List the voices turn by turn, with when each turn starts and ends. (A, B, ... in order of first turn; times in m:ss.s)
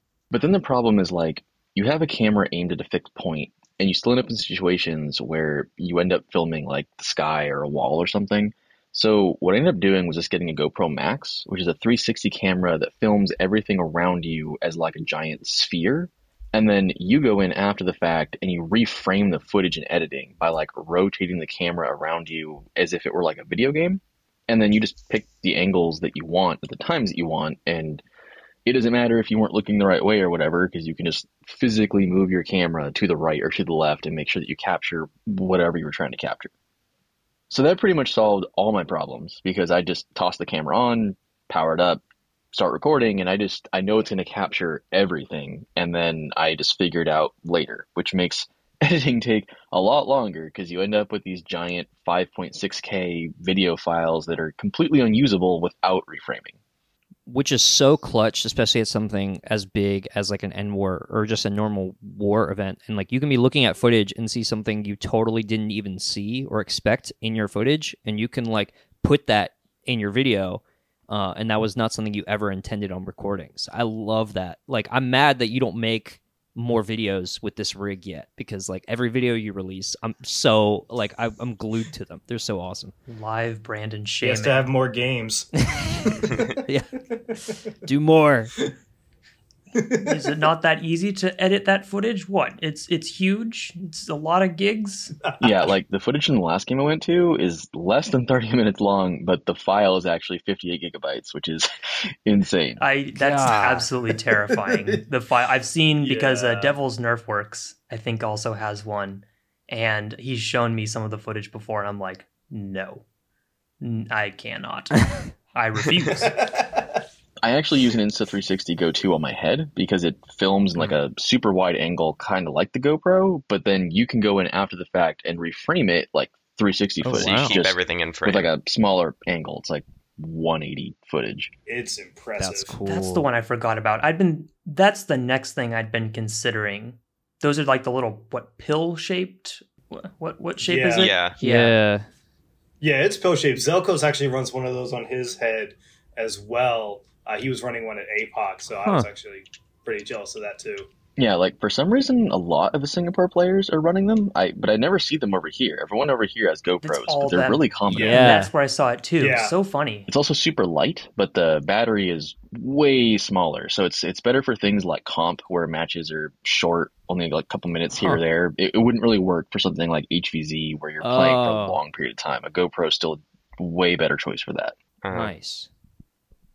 0:00.3-0:28.0 A
0:28.6-0:36.5 A
0:37.5-0:42.0 A
0:42.5-0:56.6 A
0:57.3-1:22.9 B
1:23.1-1:24.7 C
1:24.2-1:25.5 D
1:25.6-1:27.0 B
1:27.8-1:28.5 B
1:29.8-1:30.4 D
1:30.0-1:35.1 C
1:35.3-1:35.6 D
1:35.4-1:41.7 A
1:42.2-1:42.8 A
1:42.8-1:53.0 C
1:43.1-1:43.9 B
1:44.5-1:45.0 D
1:46.0-1:46.8 D
1:53.8-1:56.5 C
1:56.1-1:57.0 D
1:57.4-2:11.5 A
2:07.0-2:07.6 B
2:07.1-2:08.5 E
2:11.7-2:12.8 D
2:12.4-2:13.3 B
2:12.8-2:21.8 C
2:20.6-2:21.1 D
2:20.9-2:21.4 E
2:21.4-2:22.0 B
2:22.8-2:30.9 D
2:31.2-2:38.3 A
2:36.8-2:40.1 C
2:37.9-2:38.4 D
2:38.0-2:38.5 B
2:39.2-2:39.5 D
2:40.1-2:54.7 A
2:48.0-2:48.2 B
2:51.0-2:51.8 B
2:55.0-2:55.3 E
2:55.1-2:55.7 B